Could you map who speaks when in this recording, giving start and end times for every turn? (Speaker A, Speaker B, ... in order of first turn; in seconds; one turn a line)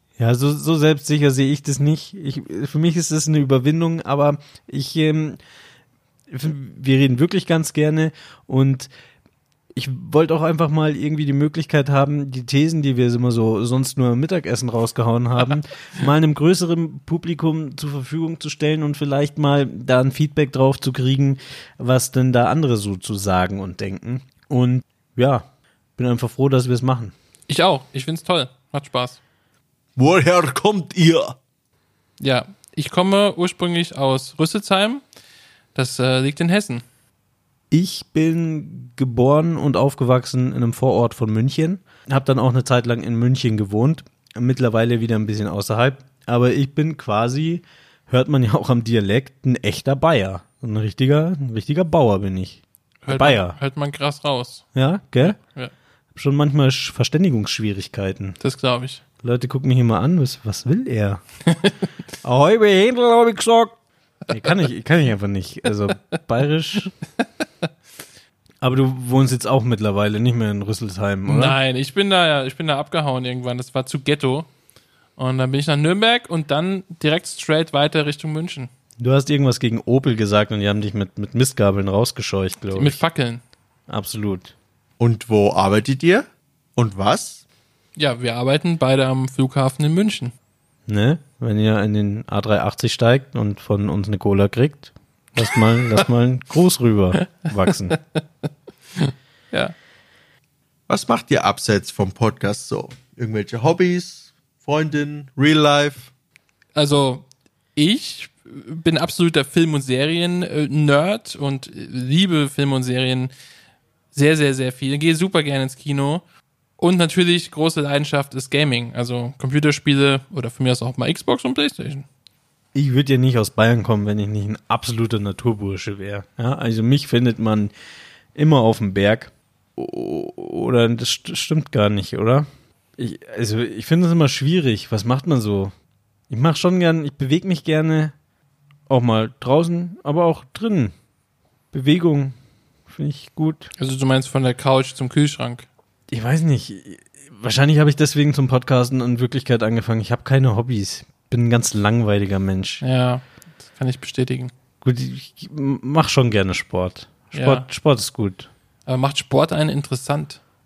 Speaker A: 0.2-5.4
Speaker A: 6.3-8.9
Speaker A: 9.7-27.1
Speaker B: 27.5-29.2
Speaker C: 29.9-31.4
Speaker B: 32.2-35.0
Speaker B: 35.7-36.8
Speaker A: 37.7-53.6
Speaker B: 53.0-54.6
Speaker A: 54.7-55.4
Speaker B: 55.2-55.7
Speaker A: 56.1-58.4
Speaker B: 58.4-59.0
Speaker A: 59.2-61.2
Speaker A: 62.2-63.8
Speaker A: 64.3-66.9
Speaker A: 68.6-71.6
Speaker B: 71.2-74.5
Speaker B: 75.2-78.7
Speaker A: 79.0-83.0
Speaker B: 82.7-83.4
Speaker A: 83.9-84.5
Speaker C: 85.0-87.4
Speaker B: 87.9-90.3
Speaker A: 90.9-98.0
Speaker B: 97.6-98.2
Speaker B: 98.9-99.7
Speaker C: 100.9-106.1
Speaker B: 106.7-113.3
Speaker B: 114.1-116.2
Speaker B: 116.8-122.1
Speaker A: 122.7-127.7
Speaker A: 128.3-135.7
Speaker A: 136.3-138.1
Speaker A: 138.9-140.9
Speaker A: 141.7-142.3
Speaker A: 142.9-143.7
Speaker B: 143.8-145.7
Speaker A: 146.1-152.8
Speaker B: 152.8-154.5
Speaker A: 154.8-158.5
Speaker B: 157.3-157.7
Speaker B: 158.8-160.4